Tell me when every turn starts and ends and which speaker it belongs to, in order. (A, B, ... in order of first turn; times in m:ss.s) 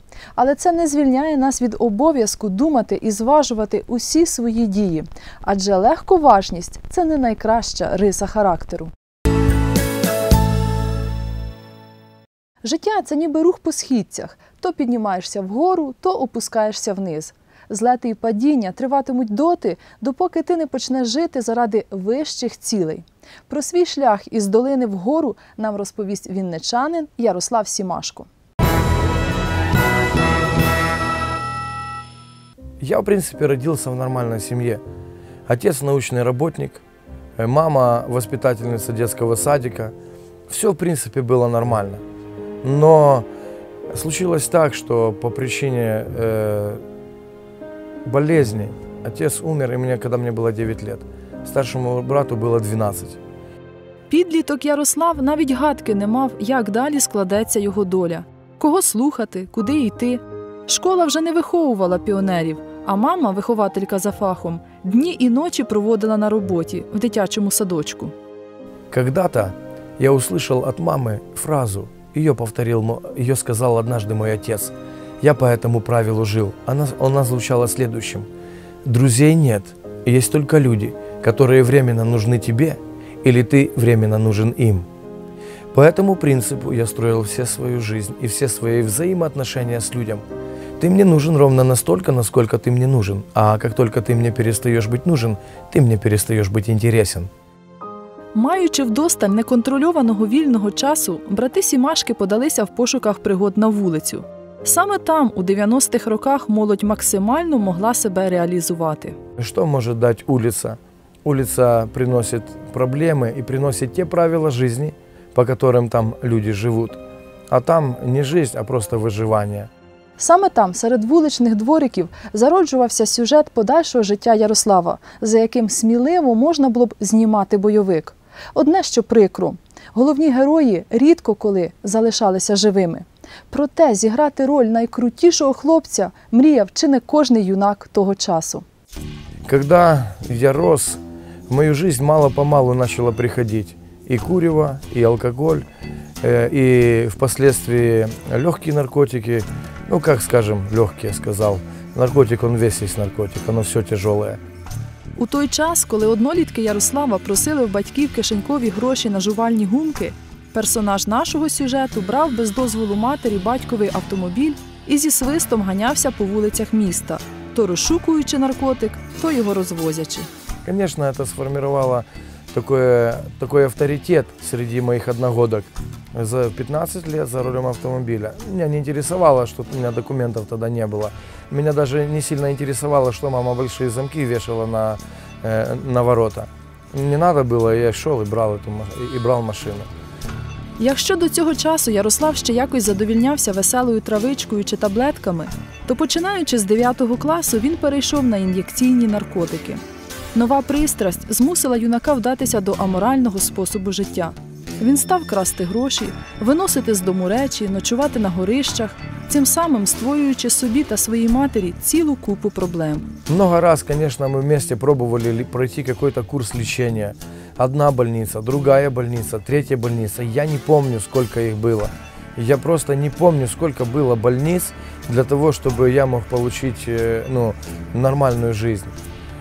0:00.4-0:08.9 A
0:12.6-0:28.3 A
0:32.8-0:34.8 B
0:35.5-0:36.8 B
0:37.4-0:39.9 B
0:40.5-0:42.0 B
0:42.6-0:43.2 B
0:43.9-0:46.8 B
0:48.0-0:53.2 B
0:54.1-1:08.1 A
1:08.9-1:18.3 B
1:18.8-1:24.8 B
1:25.7-1:30.2 B
1:30.8-1:37.3 B
1:38.3-1:49.2 A
1:49.4-1:57.0 B
1:57.5-1:59.7 B
2:00.2-2:18.6 A
2:19.4-2:25.6 B
2:26.2-2:34.4 B
2:35.2-2:50.3 A
2:50.6-3:09.9 B
3:10.8-3:19.8 A
3:20.3-3:33.1 A
3:33.3-3:48.9 B